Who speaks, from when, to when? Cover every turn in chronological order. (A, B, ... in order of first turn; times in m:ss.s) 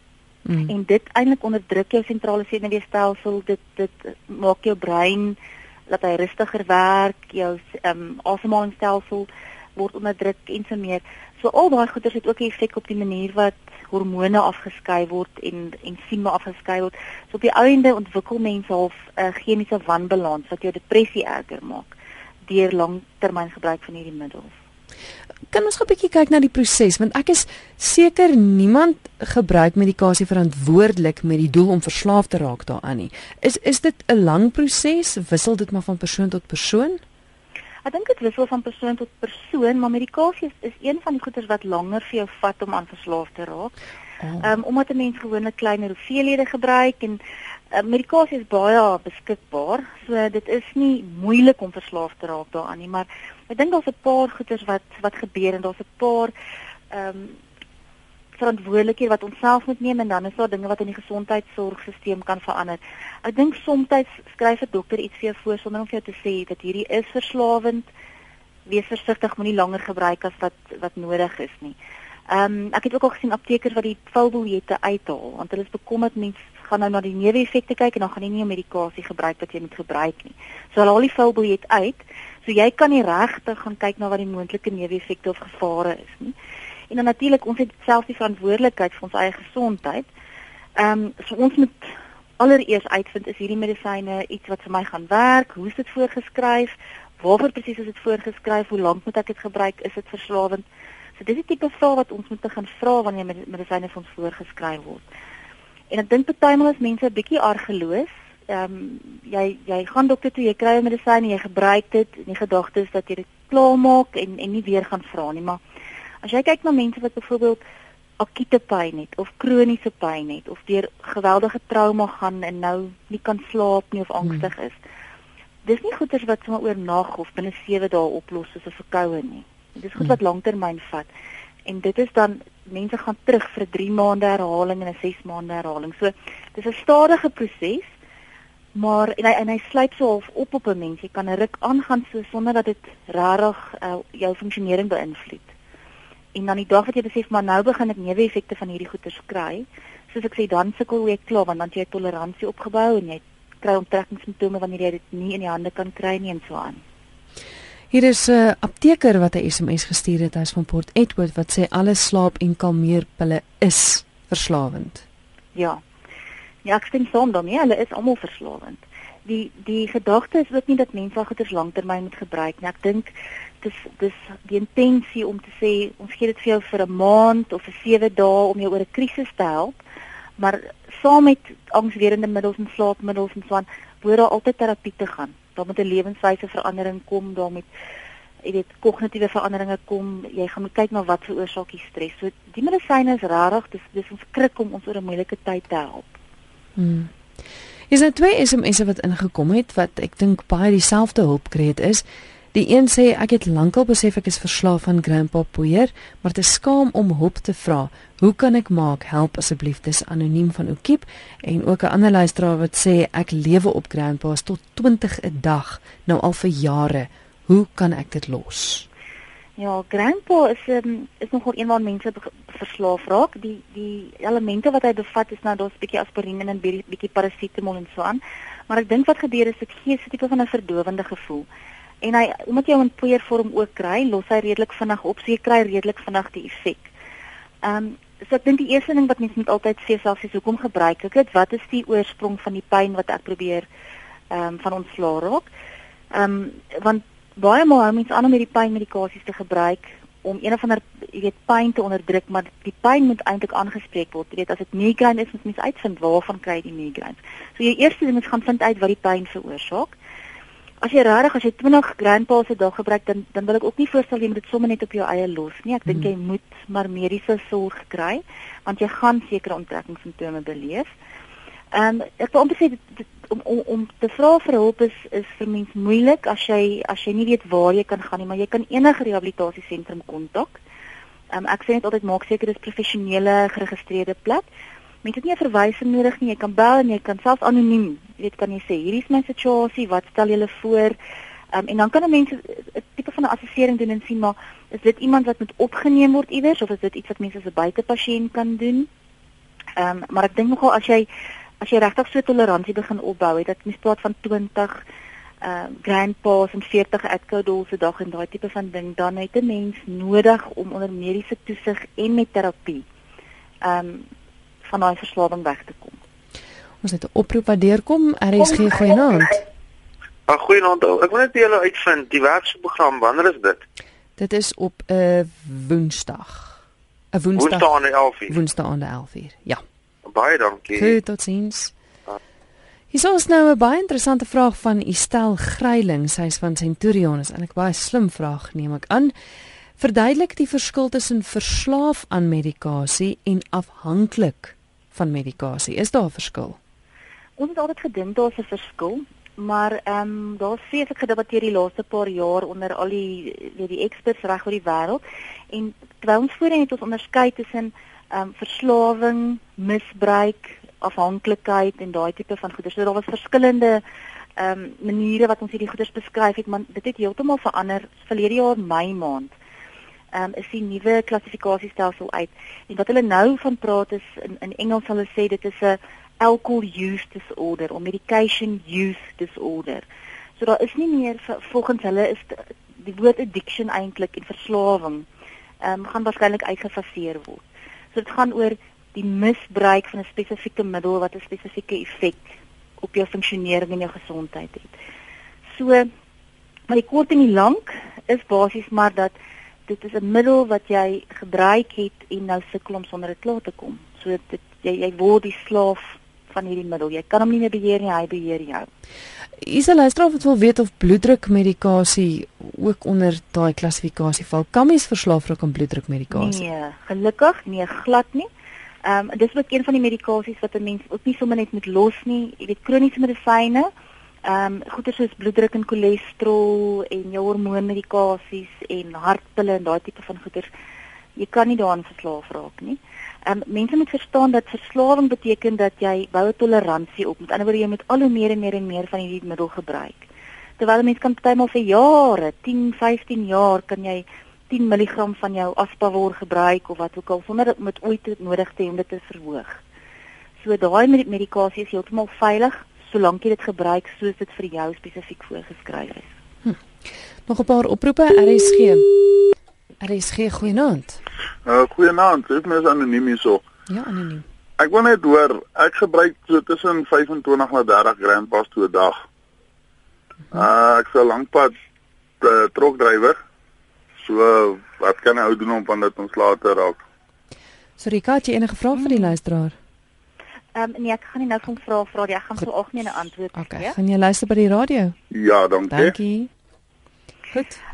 0:00.5-0:00.7 A
0:00.7-0:05.4 B
0:05.9-0:21.9 B
0:22.5-0:24.5 B
0:25.5-0:37.0 A
0:37.8-0:43.8 B
0:44.4-0:47.2 B
0:47.7-0:56.3 B
0:56.9-0:57.4 B
0:58.4-1:07.9 B
1:08.7-1:11.8 B
1:12.3-1:26.4 B
1:26.9-1:30.1 B
1:30.8-1:40.6 B
1:41.2-1:45.0 B
1:45.9-1:55.6 B
1:56.2-1:57.6 B
1:58.2-2:04.8 B
2:05.6-2:11.1 B
2:11.7-2:17.9 B
2:18.8-2:25.5 B
2:26.3-2:36.8 B
2:37.9-2:45.0 A
2:45.6-2:45.8 B
2:46.6-2:59.8 B
3:00.4-3:07.7 B
3:08.4-3:16.1 B
3:16.8-3:17.1 A
3:17.9-3:38.9 A
3:39.6-3:51.5 B
3:52.0-3:56.9 B
3:57.6-4:03.7 B
4:04.3-4:05.5 B
4:06.1-4:20.0 B
4:20.8-4:30.9 B
4:31.7-4:40.6 B
4:41.3-4:44.5 B
4:45.0-4:51.0 B
4:51.5-4:58.9 B
4:59.8-5:01.1 B
5:01.6-5:04.8 B
5:05.4-5:12.8 B
5:13.6-5:14.1 B
5:14.7-5:16.0 B
5:16.8-5:19.4 A
5:20.3-5:23.6 C
5:24.2-5:26.6 A
5:27.1-5:29.6 A
5:27.4-5:28.4 C
5:30.1-5:31.0 C
5:30.7-5:31.7 A
5:32.9-5:39.1 A
5:39.8-5:46.6 A
5:47.4-6:03.8 B
6:04.4-6:09.3 B
6:10.1-6:19.9 B
6:20.4-6:25.1 B
6:25.6-6:34.7 B
6:35.5-6:35.9 B
6:36.7-6:39.2 B
6:39.7-6:48.7 B
6:49.4-6:56.4 A
6:56.1-6:58.3 B
6:58.8-7:03.7 B
7:04.2-7:10.5 B
7:11.2-7:20.0 B
7:20.6-7:29.6 B
7:30.4-7:36.1 B
7:36.4-7:38.9 A
7:39.8-7:41.0 A
7:41.5-7:43.4 D
7:43.7-7:44.2 A
7:44.6-7:49.0 D
7:50.3-7:51.6 D
7:52.2-7:53.2 D
7:54.0-7:56.8 D
7:57.8-7:59.6 A
7:58.8-7:59.2 B
8:00.6-8:03.8 B
8:03.4-8:05.0 A
8:05.1-8:06.0 D
8:05.7-8:06.3 A
8:07.3-8:07.6 A